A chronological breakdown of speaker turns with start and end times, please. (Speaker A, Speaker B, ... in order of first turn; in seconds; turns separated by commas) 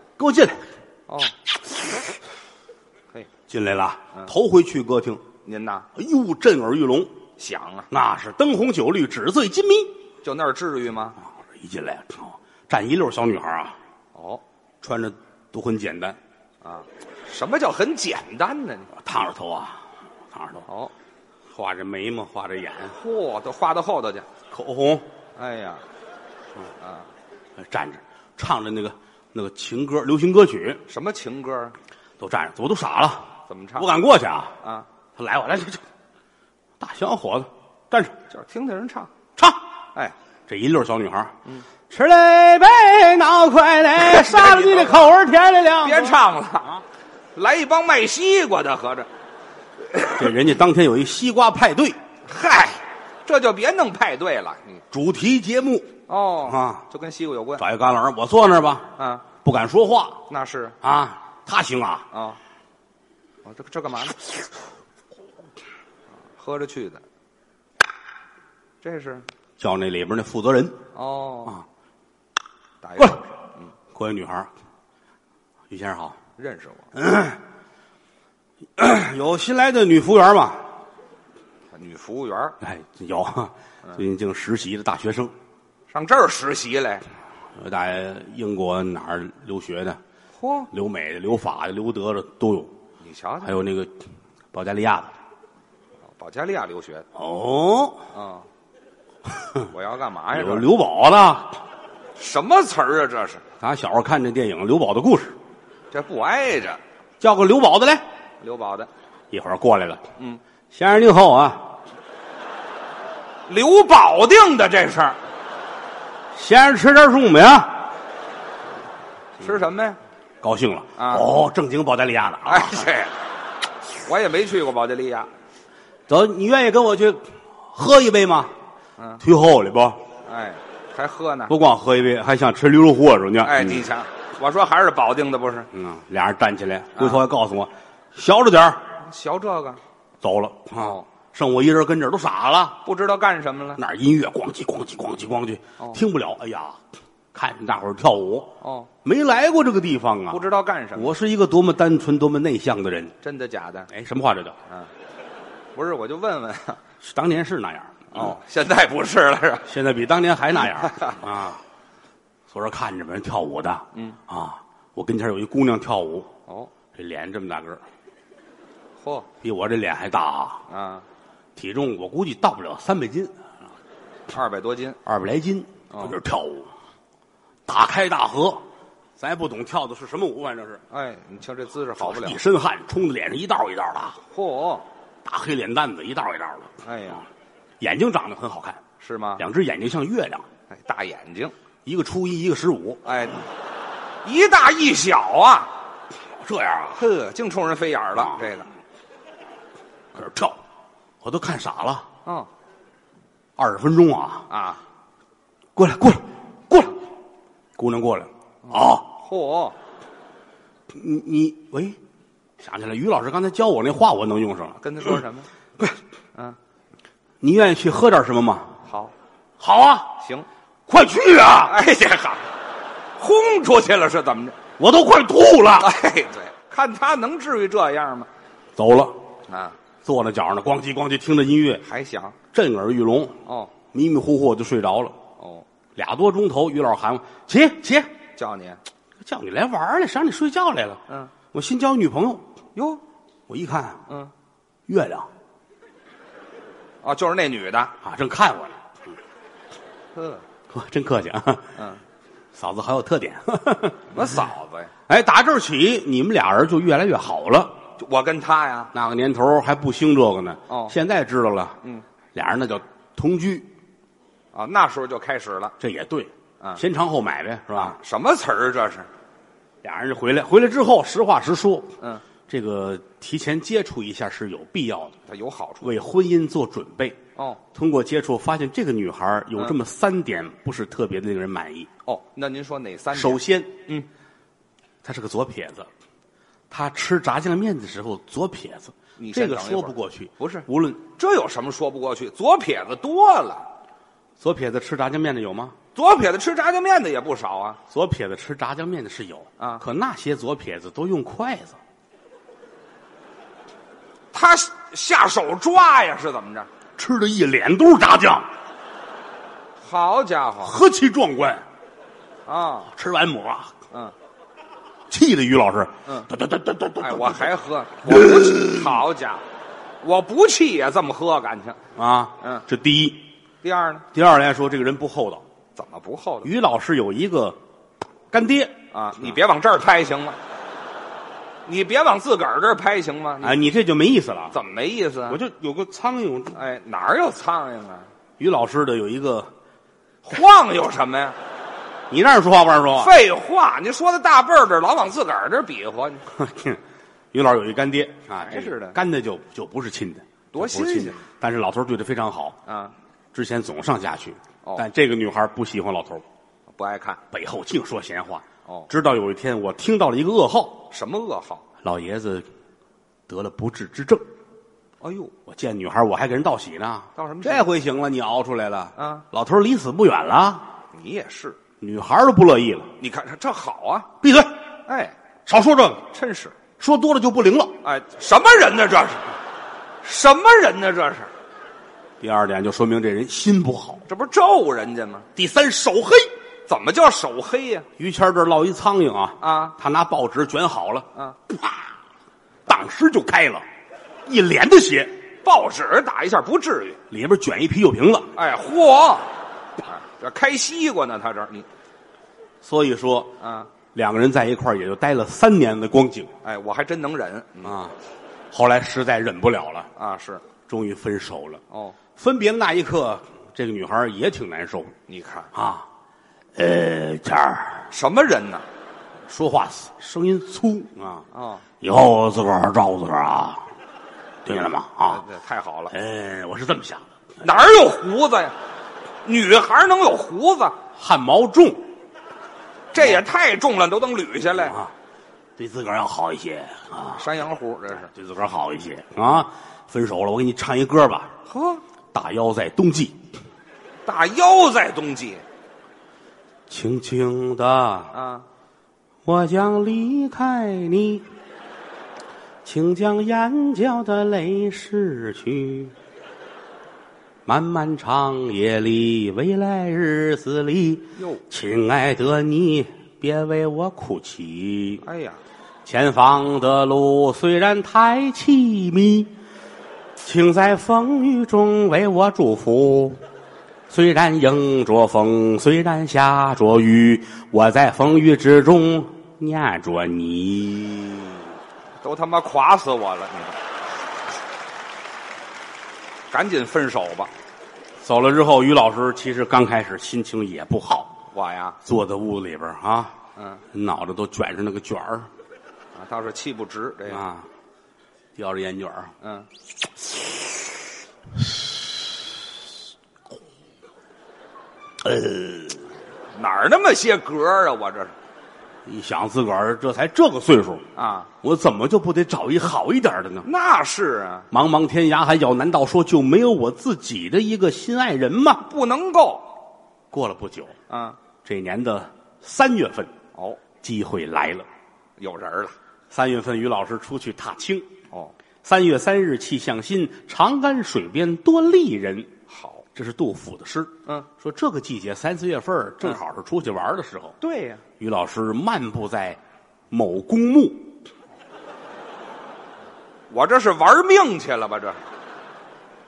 Speaker A: 0.2-0.7, Speaker B: 1.1-1.3, Speaker A: 3.5-5.2, Speaker B: 5.5-5.9, Speaker A: 6.0-7.1, Speaker B: 7.4-7.9, Speaker A: 7.9-9.9, Speaker B: 10.2-11.2, Speaker A: 11.2-13.8, Speaker B: 14.2-14.4, Speaker A: 14.8-16.2, Speaker B: 16.6-18.9, Speaker A: 19.0-20.7, Speaker B: 20.7-20.9, Speaker A: 21.5-22.9, Speaker B: 22.9-24.3, Speaker A: 24.5-25.1, Speaker B: 25.4-25.8, Speaker B: 26.8-27.1, Speaker A: 27.6-30.8, Speaker B: 30.9-31.8, Speaker A: 32.2-34.5, Speaker B: 33.5-33.9, Speaker A: 35.2-35.8, Speaker A: 36.8-38.1, Speaker B: 38.3-39.1, Speaker A: 40.5-41.3, Speaker A: 41.9-46.2, Speaker B: 44.0-45.1, Speaker B: 45.8-46.8, Speaker B: 47.4-49.1, Speaker B: 49.9-50.3, Speaker A: 50.1-52.0, Speaker B: 52.3-54.8, Speaker A: 54.9-55.9, Speaker B: 56.1-57.6, Speaker A: 56.5-56.8, Speaker A: 57.6-58.9, Speaker B: 59.0-59.2, Speaker A: 59.4-60.2, Speaker B: 60.3-60.8, Speaker A: 60.8-62.1, Speaker B: 62.1-62.4, Speaker B: 63.5-64.2, Speaker B: 66.4-67.0, Speaker B: 68.8-69.2, Speaker A: 69.6-70.8, Speaker B: 71.0-71.6, Speaker B: 72.8-73.7, Speaker A: 73.9-74.5, Speaker A: 75.7-76.2, Speaker B: 76.4-76.9, Speaker A: 77.0-77.4, Speaker A: 78.8-80.7, Speaker B: 81.7-82.6, Speaker A: 82.6-85.3, Speaker B: 85.9-87.0, Speaker A: 87.6-90.0, Speaker B: 90.4-90.7, Speaker A: 90.7-92.7, Speaker B: 93.0-93.6, Speaker A: 93.4-94.0, Speaker A: 94.5-95.1, Speaker B: 96.1-97.1, Speaker A: 97.2-98.0, Speaker B: 98.1-98.5, Speaker A: 99.4-99.7, Speaker B: 99.7-100.7, Speaker A: 100.3-101.6, Speaker B: 102.2-103.4, Speaker A: 103.6-105.4, Speaker B: 105.9-106.8, Speaker A: 107.2-108.0, Speaker B: 108.4-108.9, Speaker A: 109.3-110.0, Speaker A: 110.7-111.7, Speaker B: 113.5-115.2, Speaker A: 116.3-117.8, Speaker B: 119.4-120.0, Speaker A: 120.4-122.9, Speaker B: 121.0-121.3, Speaker B: 122.5-123.2, Speaker B: 124.0-125.3, Speaker A: 126.1-128.5, Speaker A: 129.2-130.0, Speaker B: 130.3-131.5, Speaker A: 131.5-133.9, Speaker B: 133.4-135.7, Speaker A: 135.7-138.8, Speaker B: 139.0-139.8, Speaker A: 140.2-142.8, Speaker B: 140.8-141.1, Speaker B: 142.8-143.8, Speaker A: 143.8-146.8, Speaker A: 147.3-153.2, Speaker B: 148.6-148.9, Speaker B: 150.3-151.1, Speaker B: 153.2-153.9, Speaker A: 153.9-154.6, Speaker B: 155.8-156.8, Speaker A: 157.0-158.3, Speaker B: 158.1-159.7, Speaker A: 159.7-161.6, Speaker B: 160.7-161.2, Speaker A: 162.5-166.3, Speaker A: 166.9-167.8, Speaker B: 169.0-169.3, Speaker A: 169.4-170.6, Speaker B: 170.7-171.1, Speaker A: 171.6-173.5, Speaker B: 174.3-175.0, Speaker A: 175.1-176.7, Speaker B: 175.9-176.2, Speaker A: 177.7-178.6, Speaker A: 179.2-180.8, Speaker B: 180.9-182.4, Speaker A: 182.0-184.2, Speaker B: 184.3-184.8, Speaker A: 185.2-186.8, Speaker B: 186.8-187.2, Speaker A: 187.8-188.8, Speaker B: 189.0-189.4, Speaker A: 189.4-190.5, Speaker B: 190.7-191.5, Speaker A: 191.8-193.0, Speaker B: 193.1-193.4, Speaker B: 194.2-195.7, Speaker A: 196.4-197.0, Speaker B: 196.9-198.7, Speaker A: 200.2-200.6, Speaker A: 201.2-202.1, Speaker A: 203.6-204.5, Speaker B: 204.5-204.8, Speaker A: 205.8-207.0, Speaker A: 207.8-209.1, Speaker B: 208.7-209.8, Speaker A: 210.9-212.0, Speaker A: 212.6-215.1, Speaker B: 214.8-215.5, Speaker A: 217.4-218.7, Speaker B: 218.8-219.1, Speaker A: 219.6-220.2, Speaker B: 220.2-220.5, Speaker A: 220.9-221.8, Speaker B: 221.6-222.4, Speaker B: 223.2-224.6, Speaker A: 224.8-225.9, Speaker B: 225.8-228.3, Speaker A: 228.8-229.2, Speaker B: 229.5-229.8, Speaker A: 230.0-231.8, Speaker B: 231.8-232.4, Speaker A: 232.5-235.2, Speaker B: 233.5-233.7, Speaker B: 235.4-235.7, Speaker A: 236.0-238.1, Speaker B: 238.4-238.8, Speaker A: 239.2-242.4, Speaker B: 241.1-241.3, Speaker B: 242.8-243.0, Speaker A: 243.5-244.0, Speaker A: 244.9-245.3, Speaker B: 247.0-247.9, Speaker A: 248.0-248.8, Speaker B: 250.2-250.4, Speaker A: 250.7-251.7, Speaker B: 251.8-252.0, Speaker A: 252.5-254.2, Speaker B: 254.1-254.9, Speaker A: 255.1-257.8, Speaker B: 258.0-258.9, Speaker A: 258.9-261.8, Speaker B: 260.7-260.9, Speaker A: 262.3-263.7, Speaker B: 264.5-265.7, Speaker A: 265.8-268.0, Speaker B: 267.7-269.1, Speaker A: 269.8-271.9, Speaker A: 272.5-275.2, Speaker B: 275.3-275.9, Speaker A: 275.8-277.2, Speaker A: 277.7-281.9, Speaker B: 282.1-284.1, Speaker A: 283.1-283.7, Speaker A: 285.0-285.9, Speaker A: 286.7-291.0, Speaker B: 289.2-293.7, Speaker A: 294.4-295.8, Speaker B: 295.9-297.8, Speaker A: 297.9-301.8, Speaker B: 299.6-299.8, Speaker B: 304.3-306.7, Speaker A: 307.0-308.5, Speaker B: 309.8-310.8, Speaker A: 310.6-311.6, Speaker B: 312.5-312.9, Speaker A: 312.9-313.7, Speaker A: 315.1-317.5, Speaker B: 317.0-319.4, Speaker A: 318.1-319.0, Speaker B: 320.0-321.8, Speaker A: 322.0-323.3, Speaker B: 323.6-324.1, Speaker A: 324.1-325.4, Speaker B: 325.8-326.5, Speaker A: 326.4-327.6, Speaker A: 328.3-328.8, Speaker B: 328.9-330.4, Speaker B: 331.7-333.6, Speaker A: 333.4-334.6, Speaker B: 334.5-335.4, Speaker A: 335.3-336.6, Speaker B: 336.5-338.1, Speaker A: 338.4-339.5, Speaker B: 340.2-341.4, Speaker A: 342.1-343.2, Speaker B: 343.0-346.2, Speaker A: 346.3-346.8, Speaker A: 347.3-352.6, Speaker B: 348.4-349.0, Speaker B: 350.5-351.2, Speaker B: 352.7-352.9, Speaker A: 353.3-356.2, Speaker B: 356.7-357.2, Speaker A: 357.3-360.9, Speaker B: 360.9-361.6, Speaker A: 361.8-362.5, Speaker A: 363.3-364.3, Speaker B: 365.0-365.3, Speaker A: 365.5-370.7, Speaker B: 367.2-367.7, Speaker B: 369.0-369.2, Speaker B: 370.9-371.6, Speaker A: 371.8-372.9, Speaker B: 373.0-374.1, Speaker A: 374.2-374.6, Speaker B: 374.9-375.1, Speaker A: 375.5-376.1, Speaker B: 376.1-376.6, Speaker A: 376.8-377.8, Speaker B: 377.8-379.3, Speaker B: 380.0-381.3, Speaker A: 382.2-384.0, Speaker B: 384.1-385.3, Speaker A: 385.4-386.3, Speaker B: 386.7-387.9, Speaker A: 388.0-391.8, Speaker B: 389.4-389.8, Speaker A: 392.7-393.6, Speaker A: 394.3-395.1, Speaker B: 395.4-397.0, Speaker A: 397.1-398.3, Speaker B: 398.4-399.3, Speaker B: 399.8-401.7, Speaker A: 402.6-403.4, Speaker B: 403.4-403.7, Speaker A: 403.9-406.3, Speaker B: 406.4-407.8, Speaker A: 407.6-407.9, Speaker A: 408.5-409.9, Speaker B: 410.0-410.4, Speaker A: 410.7-411.6, Speaker B: 411.7-412.0, Speaker A: 412.2-414.9, Speaker B: 415.1-415.5, Speaker A: 415.5-415.9, Speaker A: 416.6-417.9, Speaker B: 417.9-418.6, Speaker A: 419.3-421.3, Speaker B: 421.3-421.6, Speaker A: 421.8-423.7, Speaker A: 424.4-425.2, Speaker B: 425.1-425.9, Speaker A: 425.9-427.1, Speaker B: 427.4-428.6, Speaker B: 429.2-430.8, Speaker A: 430.9-431.9, Speaker B: 432.9-434.8, Speaker A: 434.6-434.9, Speaker A: 435.6-437.3, Speaker B: 437.1-438.1, Speaker A: 438.1-441.3, Speaker B: 441.5-441.8, Speaker A: 442.1-443.2, Speaker B: 444.1-445.4, Speaker A: 446.7-448.1, Speaker B: 448.1-448.5, Speaker A: 449.2-451.3, Speaker A: 452.6-455.9, Speaker A: 457.5-465.0, Speaker B: 461.2-461.4, Speaker B: 465.0-465.4, Speaker A: 465.9-469.3, Speaker A: 470.2-473.2, Speaker A: 473.9-481.5, Speaker B: 482.0-483.6, Speaker B: 486.3-487.3, Speaker A: 488.0-491.2, Speaker B: 491.3-491.8, Speaker A: 491.8-493.2, Speaker B: 493.4-493.6, Speaker A: 493.7-495.3, Speaker B: 495.9-497.2, Speaker A: 497.1-497.5, Speaker A: 498.4-499.1, Speaker B: 499.2-499.5, Speaker A: 505.0-505.8, Speaker B: 506.4-508.1, Speaker A: 508.9-510.9, Speaker B: 510.9-511.3, Speaker A: 511.4-513.5, Speaker B: 513.4-514.5, Speaker A: 514.5-518.7, Speaker B: 518.7-519.5, Speaker A: 520.1-520.8, Speaker B: 520.9-521.2, Speaker A: 521.4-523.1, Speaker B: 523.4-523.6, Speaker A: 523.8-524.7, Speaker B: 525.2-525.8, Speaker A: 526.1-527.9, Speaker A: 528.6-532.3, Speaker B: 532.5-532.9, Speaker A: 533.0-537.4, Speaker B: 537.4-537.8, Speaker A: 538.0-540.9, Speaker B: 543.3-545.0